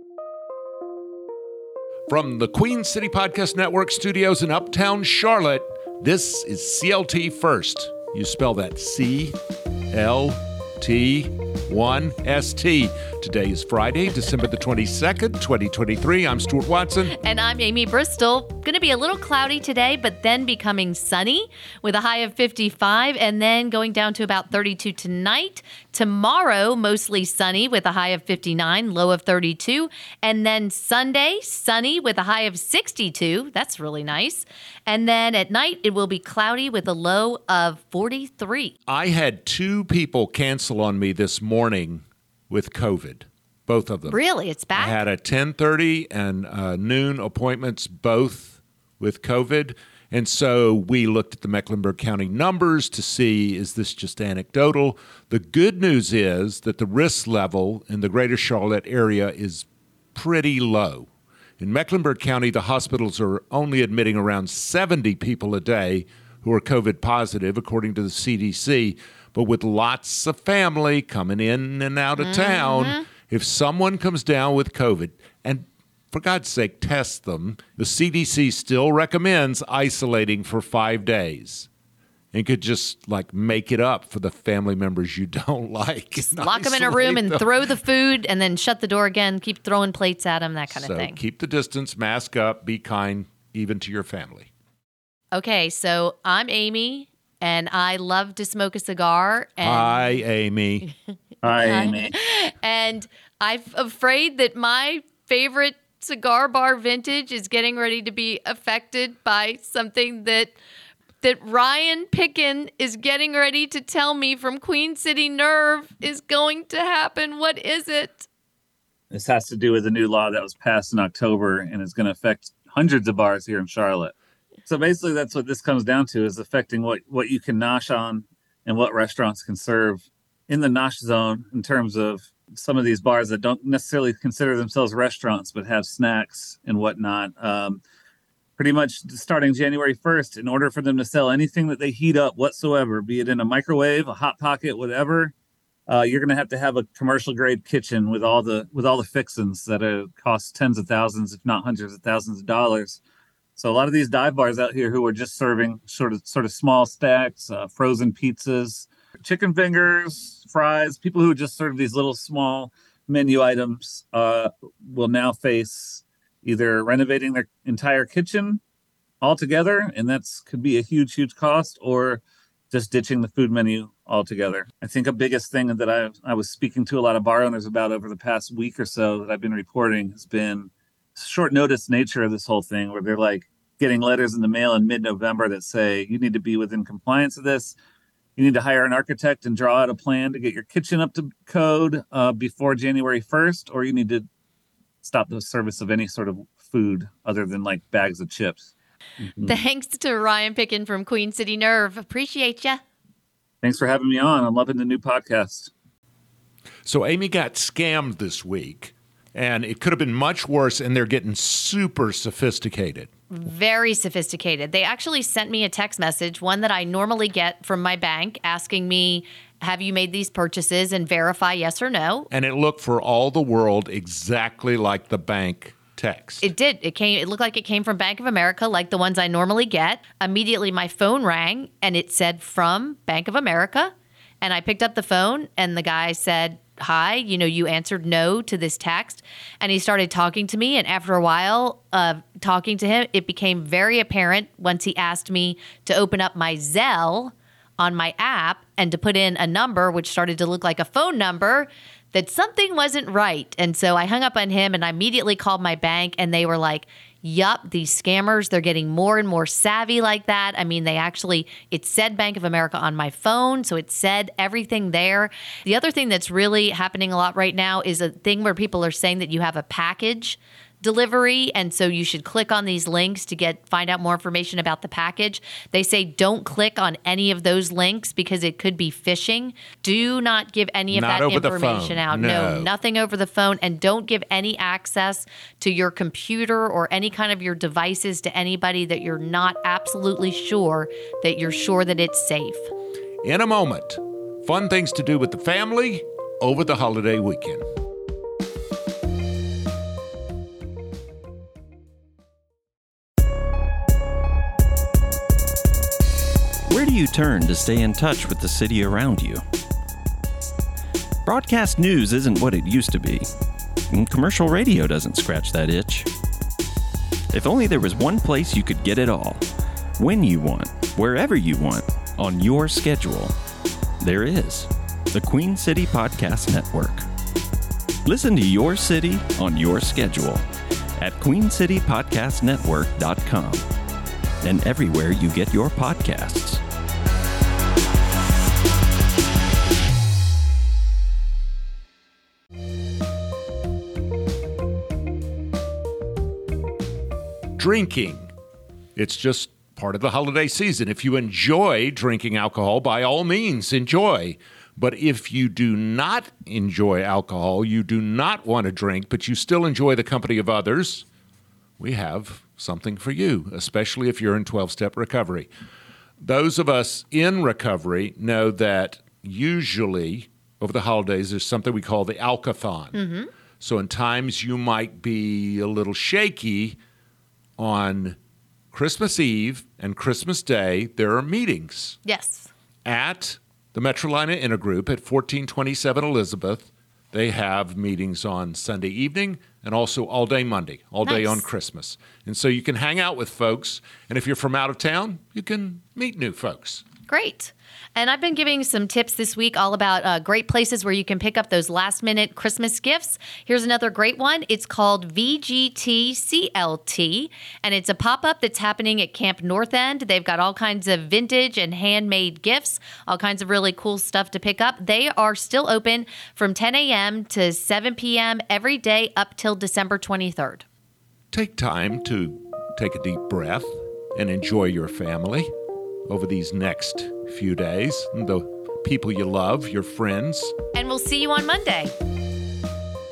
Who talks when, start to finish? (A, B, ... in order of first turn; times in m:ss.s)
0:02.1-0:09.4 A
0:09.9-0:17.1 A
0:17.1-0:38.7 B
0:38.9-0:44.2 A
0:44.1-0:45.0 B
0:44.7-1:01.1 A
1:01.6-1:21.7 A
1:12.2-1:13.0 B
1:22.3-1:27.6 A
1:26.2-1:31.2 B
1:30.7-1:34.5 A
1:35.3-1:40.2 B
1:39.6-1:40.9 A
1:41.4-1:42.1 C
1:41.6-1:50.6 B
1:51.2-1:58.3 B
1:59.1-2:04.1 C
2:04.6-2:17.8 C
2:18.6-2:25.3 C
2:25.9-2:33.0 C
2:33.6-2:48.6 C
2:49.2-3:07.8 C
3:08.4-3:14.3 C
3:15.0-3:18.7 C
3:19.4-3:22.8 B
3:23.6-3:25.7 C
3:26.8-3:33.1 A
3:33.3-3:42.3 B
3:42.3-3:46.5 A
3:46.4-4:52.7 B
4:40.9-4:42.7 A
4:53.2-4:57.6 A
5:06.7-5:09.4 D
5:11.2-5:13.3 D
5:13.9-5:16.1 D
5:17.3-5:19.4 D
5:20.0-5:23.3 D
5:24.0-5:27.1 D
5:28.0-5:30.4 D
5:31.0-5:33.6 D
5:34.4-5:36.6 D
5:47.6-5:48.3 A
5:49.0-6:01.0 A
6:01.8-6:05.5 A
6:06.2-6:13.0 A
6:12.9-6:13.3 B
6:13.6-6:16.8 A
6:17.6-6:18.2 A
6:18.7-6:22.0 A
6:22.0-6:22.5 B
6:22.8-6:36.8 A
6:31.0-6:31.4 B
6:37.1-7:00.6 B
7:01.3-7:05.5 A
7:06.1-7:10.5 A
7:10.7-7:11.9 B